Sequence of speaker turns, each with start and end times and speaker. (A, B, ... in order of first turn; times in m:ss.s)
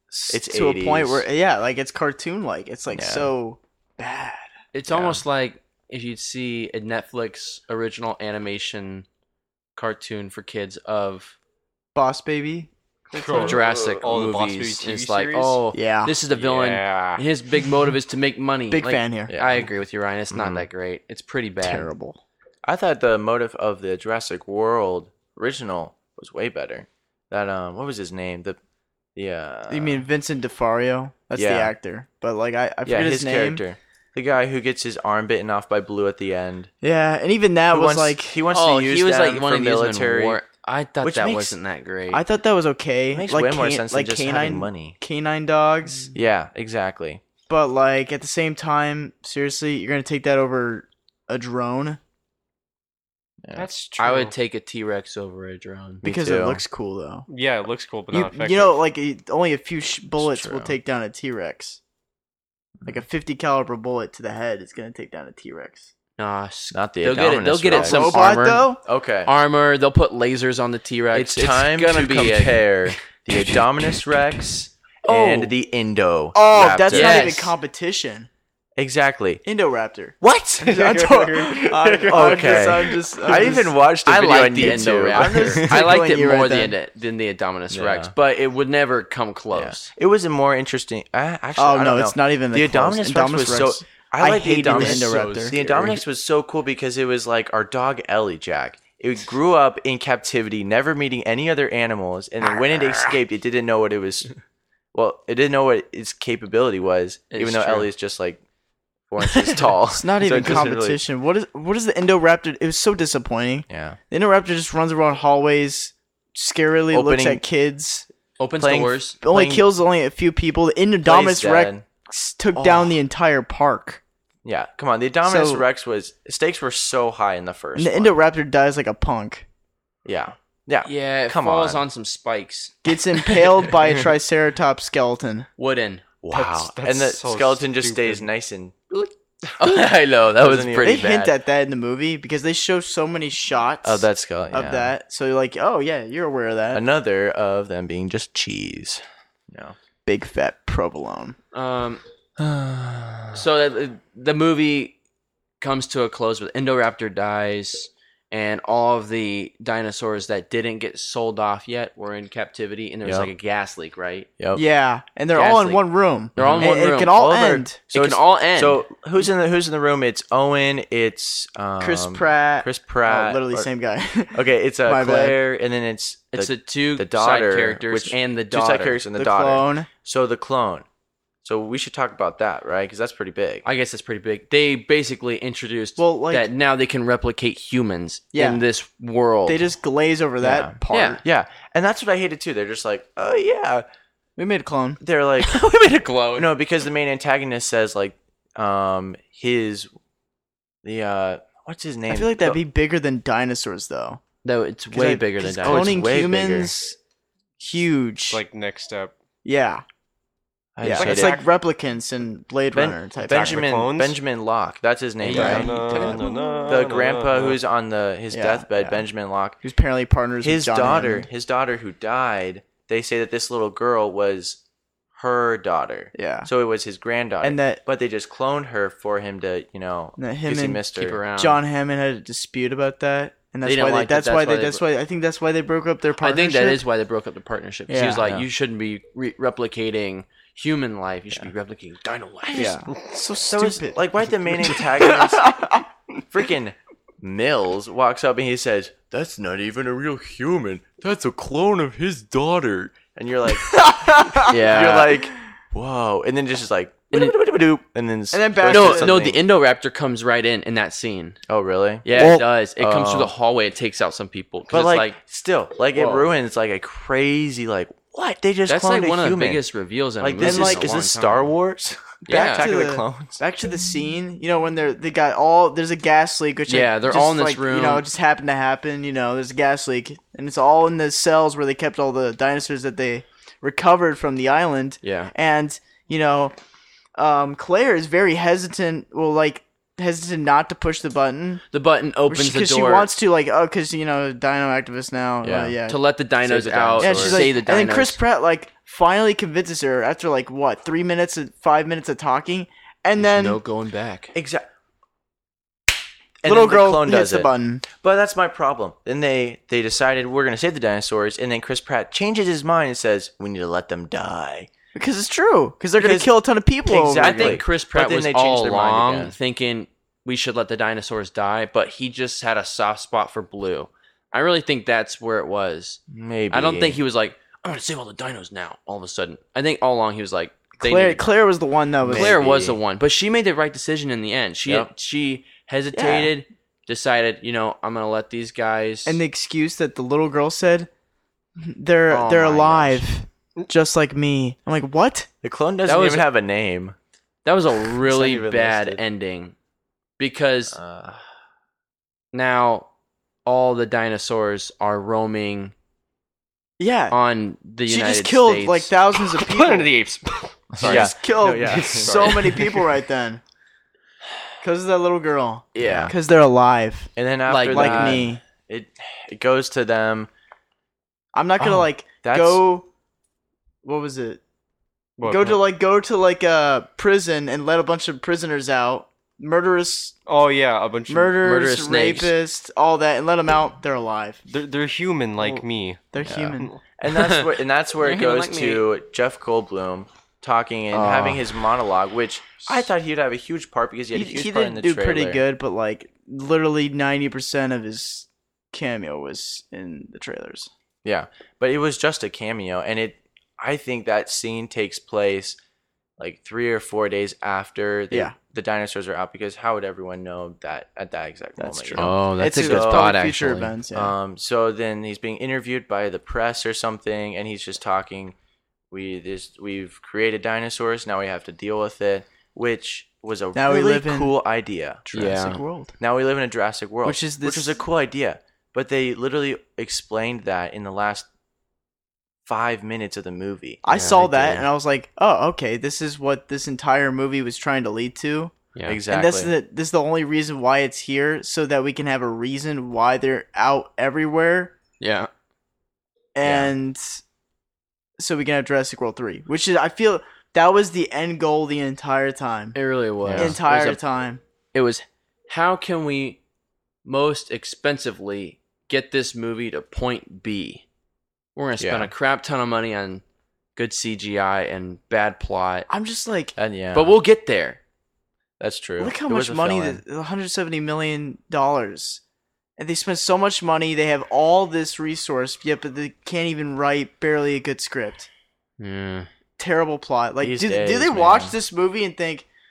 0:00.1-0:04.5 A
0:00.3-0:01.3 B
0:02.9-0:03.3 B
0:04.7-0:09.1 C
0:04.9-0:05.2 B
0:09.8-0:11.4 C
0:12.0-0:13.6 A
0:13.1-0:15.6 D
0:13.4-0:21.9 C
0:15.7-0:16.1 A
0:16.4-0:17.2 D
0:18.7-0:19.4 A
0:19.3-0:19.7 B
0:20.3-0:20.7 B
0:21.6-0:22.2 A
0:22.6-0:28.6 B
0:29.2-0:30.0 B
0:29.7-0:33.6 A
0:31.4-0:31.7 B
0:32.8-0:36.7 B
0:36.8-0:38.4 A
0:37.7-0:40.4 B
0:38.5-0:42.2 C
0:41.0-0:41.6 B
0:42.1-0:46.1 A
0:43.1-0:45.0 B
0:46.1-0:47.2 B
0:47.5-0:52.0 A
0:53.4-0:53.7 B
0:53.6-0:54.3 D
0:54.0-0:56.0 C
0:56.0-0:56.6 B
0:56.0-0:57.3 A
0:57.3-0:58.8 D
0:58.1-1:01.8 A
1:00.2-1:00.8 B
1:02.9-1:05.9 A
1:06.2-1:08.6 C
1:06.7-1:09.3 B
1:07.7-1:08.8 A
1:09.2-1:13.6 C
1:11.1-1:17.5 B
1:15.1-1:15.4 C
1:15.2-1:15.5 A
1:16.3-1:18.3 A
1:16.9-1:17.5 C
1:18.8-1:19.4 B
1:19.4-1:23.8 A
1:20.2-1:20.8 B
1:20.6-1:23.5 D
1:22.1-1:25.9 B
1:24.0-1:29.9 C
1:24.4-1:26.8 A
1:27.7-1:28.1 B
1:29.5-1:44.3 B
1:31.6-1:35.6 A
1:34.6-1:36.0 C
1:44.9-1:48.4 B
1:47.3-1:47.9 C
1:49.1-1:51.0 B
1:49.9-1:58.1 A
1:53.7-1:54.0 B
1:56.9-1:57.4 B
1:58.4-1:59.2 C
1:58.6-1:59.7 B
1:59.2-2:04.0 A
2:01.0-2:01.9 B
2:02.5-2:03.0 B
2:04.4-2:08.2 B
2:05.2-2:05.6 A
2:07.8-2:09.5 A
2:10.0-2:11.8 B
2:10.8-2:13.4 C
2:12.8-2:15.5 A
2:15.6-2:16.0 C
2:16.2-2:21.3 B
2:16.3-2:18.3 D
2:19.6-2:21.3 C
2:20.8-2:26.8 A
2:23.8-2:25.0 B
2:26.7-2:29.8 B
2:30.1-2:31.4 A
2:31.5-2:32.0 C
2:32.4-2:33.4 B
2:33.3-2:35.0 C
2:35.6-2:44.3 C
2:43.0-2:43.3 B
2:44.6-2:47.8 A
2:45.4-2:45.8 C
2:46.4-2:47.2 C
2:46.4-2:53.7 B
2:47.9-2:48.8 C
2:51.8-2:55.4 A
2:54.3-3:00.9 B
2:56.3-2:59.0 C
2:59.2-2:59.9 A
3:01.4-3:03.7 B
3:03.6-3:09.6 C
3:06.0-3:06.5 A
3:08.3-3:08.6 A
3:09.5-3:11.2 A
3:10.4-3:13.9 B
3:10.9-3:11.2 C
3:14.4-3:15.0 A
3:15.0-3:15.6 B
3:15.4-3:16.5 C
3:16.3-3:19.9 B
3:20.8-3:22.6 B
3:22.1-3:24.2 A
3:24.4-3:26.0 C
3:24.9-3:27.0 A
3:25.6-3:26.8 B
3:27.6-3:28.4 A
3:28.3-3:29.1 D
3:29.4-3:29.8 A
3:30.8-3:31.4 B
3:30.8-3:33.7 A
3:30.9-3:31.5 D
3:32.7-3:36.1 B
3:33.3-3:34.2 D
3:35.2-3:36.6 C
3:35.3-3:35.7 A
3:35.3-3:37.6 D
3:36.7-3:39.6 B
3:38.3-3:39.0 A
3:39.6-3:41.3 A
3:40.4-3:44.6 B
3:45.1-3:51.2 B
3:46.2-3:46.5 A
3:47.4-3:47.8 A
3:50.2-3:50.8 A
3:51.0-3:51.6 C
3:51.4-3:56.8 A
3:53.6-3:54.8 C
3:56.2-4:02.8 C
3:57.9-3:58.4 A
4:02.5-4:02.8 B
4:02.5-4:05.8 A
4:03.5-4:19.4 B
4:13.7-4:15.1 A
4:14.5-4:15.1 C
4:18.3-4:19.2 A
4:18.7-4:21.4 C
4:21.5-4:23.3 B
4:22.0-4:25.2 C
4:24.7-4:29.6 B
4:25.9-4:26.3 C
4:28.7-4:31.5 C
4:30.2-4:33.4 B
4:30.4-4:30.9 A
4:32.3-4:32.7 C
4:32.3-4:46.6 A
4:36.7-4:38.1 C
4:45.0-4:45.3 C
4:47.2-4:51.6 A
4:51.7-4:53.1 C
4:52.3-4:56.0 A
4:55.4-4:55.8 B
4:55.9-4:58.2 C
4:56.5-4:57.5 B
4:57.0-5:03.6 A
5:03.2-5:04.3 C
5:04.3-5:04.7 B
5:06.4-5:14.7 B
5:06.4-5:07.8 A
5:15.0-5:17.6 A
5:16.0-5:16.3 B
5:16.8-5:19.4 B
5:17.2-5:26.0 C
5:26.1-5:27.0 B
5:26.5-5:31.3 C
5:30.8-5:32.4 A
5:32.0-5:32.8 B
5:32.0-5:39.2 C
5:35.9-5:36.3 A
5:39.1-5:40.9 A
5:41.6-5:45.3 A
5:42.1-5:43.0 C
5:45.4-5:47.0 B
5:45.9-5:46.3 C
5:47.4-5:49.6 C
5:47.8-5:49.0 B
5:50.2-5:50.8 C
5:50.7-5:51.2 B
5:52.3-5:52.9 C
5:53.4-5:55.7 C
5:56.8-5:57.2 A
5:57.1-5:58.9 C
5:57.9-5:59.9 A
5:59.2-6:02.8 D
6:00.8-6:02.4 B
6:00.8-6:03.4 A
6:04.6-6:07.1 A
6:05.7-6:06.1 C
6:05.8-6:06.1 B
6:07.2-6:10.3 B
6:07.5-6:08.2 C
6:07.7-6:08.4 A
6:11.3-6:12.9 A
6:11.6-6:12.6 B
6:13.8-6:14.4 A
6:15.2-6:15.6 D
6:15.2-6:20.2 A
6:20.3-6:21.4 D
6:21.1-6:24.4 A
6:21.4-6:22.3 C
6:24.5-6:26.8 D
6:25.4-6:26.7 A
6:26.2-6:35.4 B
6:27.1-6:27.5 C
6:28.0-6:28.9 C
6:30.9-6:31.4 A
6:34.1-6:40.7 A
6:41.0-6:45.6 B
6:46.2-6:53.2 B
6:51.6-6:54.1 A
6:52.0-6:53.7 C
6:53.9-6:58.4 B
6:58.9-7:05.1 B
7:03.5-7:04.3 A
7:05.1-7:05.9 A
7:05.1-7:05.6 C
7:06.0-7:11.3 B
7:07.0-7:07.8 A
7:12.4-7:13.8 B
7:13.8-7:18.5 A
7:13.9-7:14.7 C
7:18.8-7:19.0 C
7:18.9-7:19.5 B
7:19.1-7:24.7 A
7:25.0-7:25.3 C
7:26.4-7:27.2 A
7:26.4-7:26.7 B
7:28.2-7:32.8 A
7:32.8-7:34.0 C
7:33.2-7:33.6 B
7:33.3-7:34.4 A
7:34.7-7:36.4 C
7:37.0-7:40.8 C
7:41.6-7:43.2 C
7:41.8-7:42.1 B
7:43.8-7:45.9 C
7:45.9-7:46.6 A
7:46.6-7:47.2 B
7:46.9-7:47.8 C
7:48.6-7:50.0 B
7:49.0-7:52.2 A
7:52.8-7:58.3 A
7:58.8-7:59.3 C
7:59.6-8:02.5 A
8:00.4-8:01.6 B